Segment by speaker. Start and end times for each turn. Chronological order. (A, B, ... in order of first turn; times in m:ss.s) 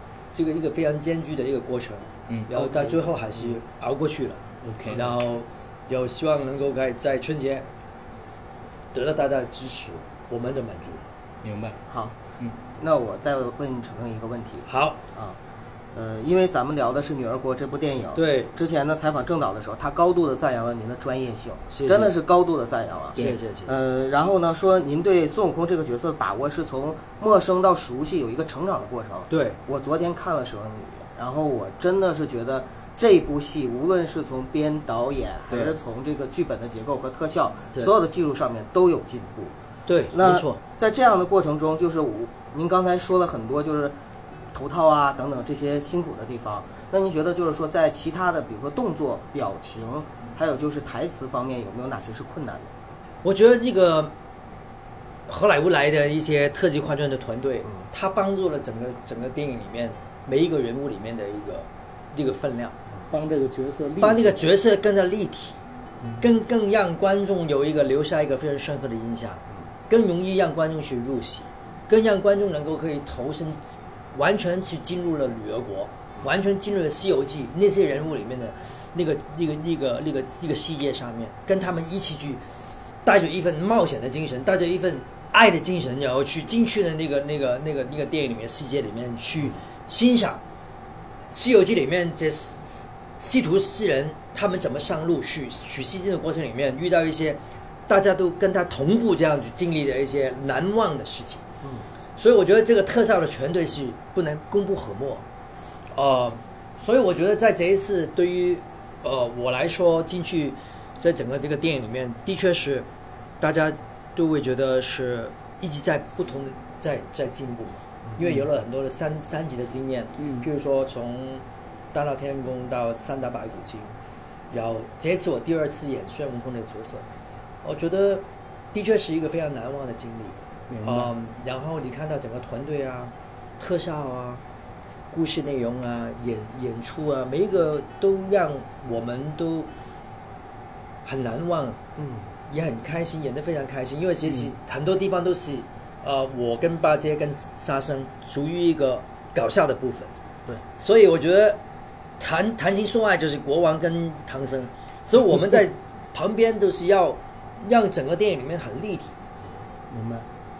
0:00.3-0:07.7 A
0:02.3-0:03.5 B
0:04.6-0:05.2 B
0:08.9-0:11.1 A
0:11.4-0:11.8 B
0:11.9-0:12.2 C
0:12.8-0:15.4 C
0:14.7-0:15.0 A
0:15.9-0:39.6 C
0:18.2-0:18.5 A
0:21.7-0:22.1 A
0:23.1-0:23.7 A
0:29.3-0:29.6 A
0:35.5-0:35.7 A
0:39.8-0:40.6 A
0:40.1-0:43.9 C
0:44.5-0:52.7 C
0:53.2-0:54.1 A
0:55.3-1:02.8 A
1:03.1-1:04.5 B
1:04.0-1:05.6 A
1:06.2-1:13.6 A
1:14.1-1:22.4 A
1:23.0-1:30.4 A
1:31.3-1:41.4 A
1:42.2-1:45.2 A
1:45.9-1:52.9 A
1:53.4-2:03.9 A
1:58.2-1:58.4 B
2:00.2-2:00.5 B
2:04.5-2:07.0 A
2:07.6-2:14.4 A
2:10.7-2:11.1 B
2:15.1-2:19.7 A
2:21.0-2:21.8 A
2:22.0-2:22.3 C
2:22.5-2:30.1 A
2:30.8-2:31.6 A
2:32.2-2:39.2 A
2:39.9-2:40.3 B